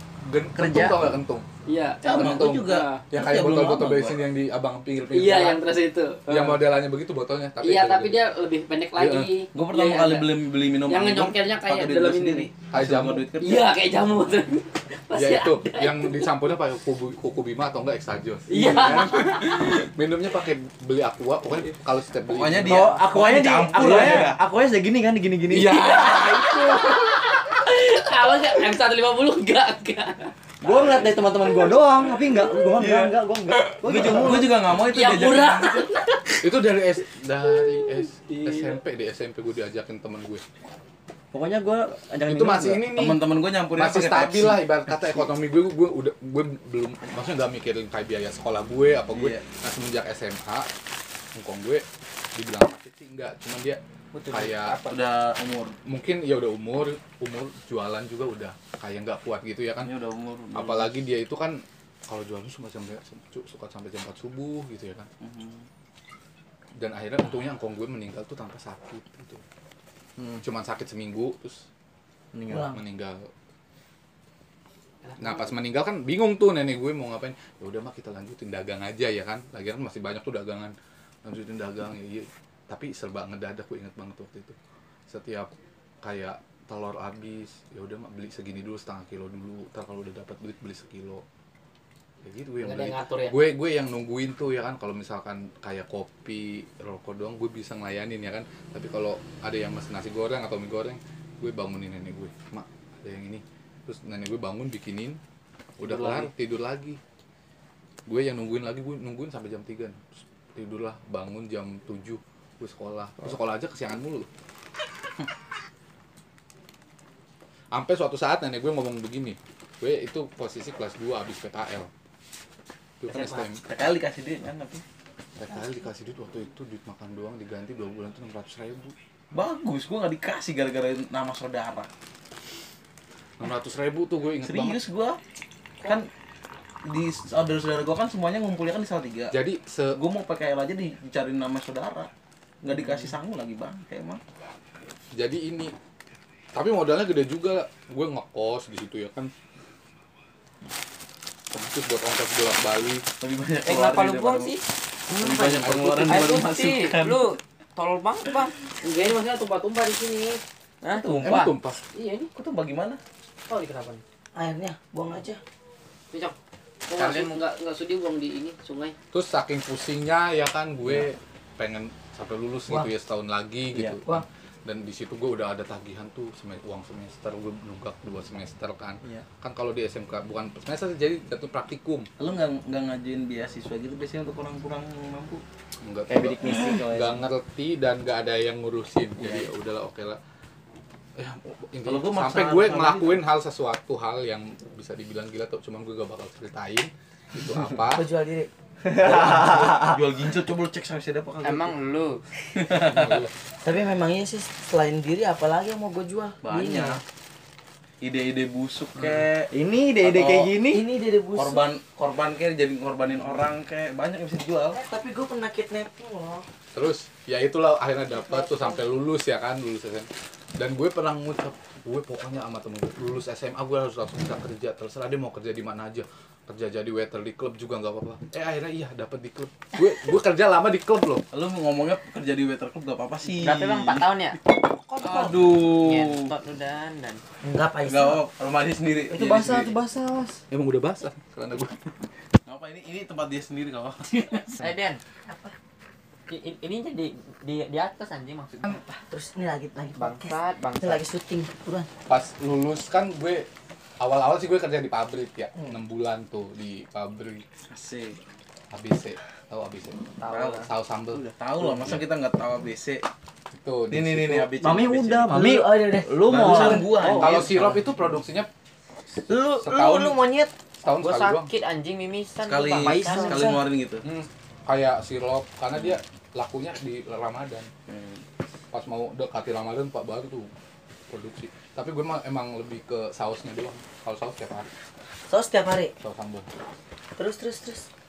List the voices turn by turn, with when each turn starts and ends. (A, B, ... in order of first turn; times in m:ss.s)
0:00.2-0:01.4 A
0:00.6-0:01.2 B
0:01.6-0:03.0 C
0:02.0-0:04.2 D
0:02.1-0:05.6 A
0:05.1-0:06.6 C
0:06.3-0:08.2 A
0:07.6-0:10.3 C
0:09.0-0:09.3 A
0:09.5-0:13.7 D
0:10.9-0:12.5 C
0:12.7-0:13.3 A
0:13.4-0:16.3 C
0:15.1-0:22.9 A
0:18.5-0:19.8 C
0:22.3-0:24.4 D
0:22.6-0:26.4 B
0:23.8-0:24.1 A
0:25.5-0:27.0 A
0:25.6-0:30.3 C
0:30.6-0:31.3 D
0:30.6-0:34.6 B
0:32.8-0:33.2 D
0:33.8-0:35.9 D
0:34.4-0:36.4 C
0:36.4-0:40.4 A
0:41.3-0:42.9 B
0:42.2-0:50.7 A
0:42.9-0:44.6 D
0:49.1-0:49.5 D
0:51.3-0:51.8 A
0:52.4-0:54.9 A
0:54.8-0:55.8 D
0:55.8-0:59.9 A
0:59.8-1:00.9 D
1:00.5-1:05.1 A
1:05.2-1:05.6 D
1:06.8-1:09.4 A
1:10.2-1:10.4 B
1:10.4-1:11.6 A
1:12.3-1:12.7 B
1:12.5-1:12.8 E
1:12.5-1:13.3 A
1:15.0-1:15.5 C
1:15.2-1:24.6 A
1:25.1-1:31.2 A
1:32.2-1:45.2 A
1:32.6-1:33.4 C
1:45.8-1:47.0 A
1:45.8-1:46.3 D
1:48.0-1:54.3 A
1:57.7-2:01.9 A
2:03.0-2:03.6 A
2:03.1-2:04.8 D
2:05.4-2:08.9 A
2:09.3-2:11.9 D
2:13.4-2:14.8 A
2:14.4-2:15.2 D
2:15.8-2:16.1 D
2:16.8-2:19.4 D
2:19.3-2:20.0 A
2:19.9-2:22.1 D
2:22.6-2:24.2 D
2:25.1-2:25.7 A
2:26.5-2:29.3 A
2:31.5-2:33.0 A
2:33.2-2:34.5 D
2:33.6-2:34.6 F
2:35.1-2:37.4 D
2:35.5-2:36.3 A
2:36.0-2:38.5 F
2:38.8-2:40.4 C
2:40.8-2:41.5 F
2:40.9-2:41.5 D
2:41.2-2:41.8 A
2:41.9-2:42.3 C
2:42.3-2:43.0 D
2:43.5-2:44.0 C
2:44.3-2:45.4 E
2:46.9-2:49.0 C
2:47.0-2:47.4 F
2:49.1-3:02.1 A
2:53.7-2:54.0 B
3:02.2-3:05.4 D
3:05.8-3:10.2 A
3:06.1-3:07.2 B
3:09.2-3:09.5 B
3:11.2-3:18.1 A
3:11.8-3:13.2 D
3:17.9-3:18.5 E
3:18.9-3:21.7 D
3:19.0-3:19.8 B
3:21.4-3:22.2 F
3:22.5-3:23.3 D
3:22.8-3:23.3 A
3:23.6-3:27.0 E
3:26.4-3:27.0 D
3:28.0-3:30.5 D
3:29.5-3:30.8 B
3:30.6-3:31.6 E
3:31.3-3:34.8 D
3:34.7-3:36.5 E
3:36.7-3:51.2 A
3:38.2-3:38.8 E
3:51.3-3:54.1 D
3:53.2-3:54.4 F
3:55.0-3:56.3 D
3:55.6-3:57.2 F
3:57.4-3:58.2 E
3:57.8-3:59.7 D
3:59.1-4:00.4 B
4:00.5-4:02.0 A
4:02.4-4:04.6 D
4:04.6-4:05.0 F
4:05.2-4:05.5 E
4:06.3-4:08.7 F
4:08.6-4:11.9 E
4:10.0-4:11.0 F
4:12.1-4:13.5 A
4:14.0-4:17.4 A
4:17.6-4:18.2 D
4:18.7-4:21.2 A
4:20.2-4:20.6 F
4:20.3-4:23.0 D
4:23.5-4:24.5 A
4:23.9-4:25.5 D
4:24.6-4:27.8 B
4:25.3-4:27.2 E
4:26.2-4:27.6 D
4:27.1-4:28.5 A
4:29.3-4:30.5 E
4:29.5-4:30.2 A
4:30.8-4:31.5 A
4:31.0-4:33.4 F
4:32.4-4:34.0 D
4:32.8-4:33.6 E
4:32.9-4:33.6 B
4:34.0-4:37.7 A
4:37.9-4:38.2 D
4:38.7-4:40.5 A
4:41.1-4:44.7 A
4:45.3-4:45.9 E
4:46.0-4:46.4 A
4:47.2-4:47.9 E